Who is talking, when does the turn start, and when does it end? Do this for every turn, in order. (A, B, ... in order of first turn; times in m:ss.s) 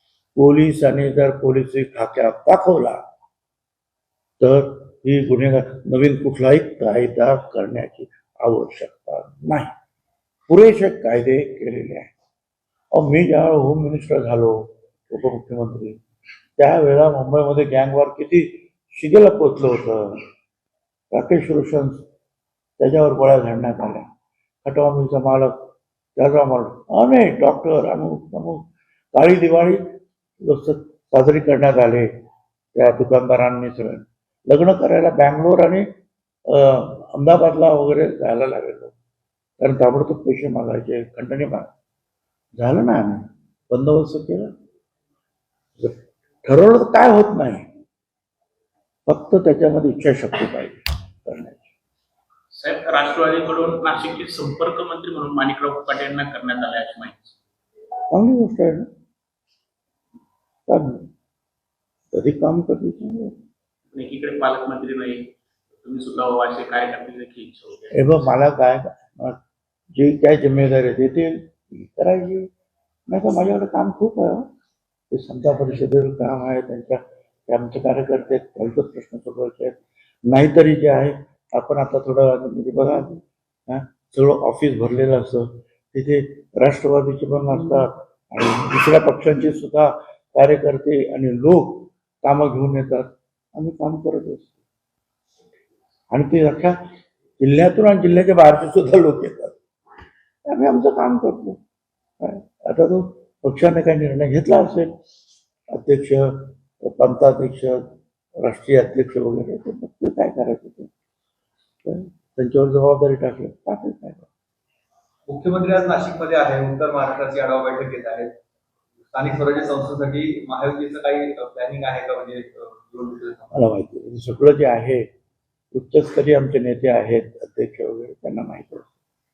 0:00.4-0:03.0 A
0:04.4-0:09.7 A
0:10.5-0:12.1 A
0:12.9-0:16.0 A
0:16.6-0:20.3 A
0:21.1-0:22.0 A
0:22.8-0:24.1 A
0:24.6-0:29.8 A
0:30.4-0:32.1 A
0:32.8-0:35.9 A
0:36.5-0:38.9 A
0:39.6-0:41.7 A
0:42.6-0:44.5 A
0:45.8-0:47.7 A
0:49.1-0:51.6 A
0:52.5-0:57.4 B
0:58.1-0:58.9 A
1:00.7-1:01.1 A
1:02.1-1:03.4 A
1:03.9-1:08.2 B
1:07.9-1:09.4 A
1:09.9-1:12.5 A
1:13.1-1:14.5 A
1:15.1-1:34.5 A
1:36.1-1:36.8 A
1:37.4-1:39.6 A
1:40.5-1:41.6 A
1:42.2-1:44.9 A
1:45.7-1:47.8 A
1:48.4-1:50.9 A
1:51.8-1:54.3 A
1:55.3-1:58.3 C
1:59.1-2:03.5 C
2:03.5-2:05.1 A
2:05.7-2:08.9 A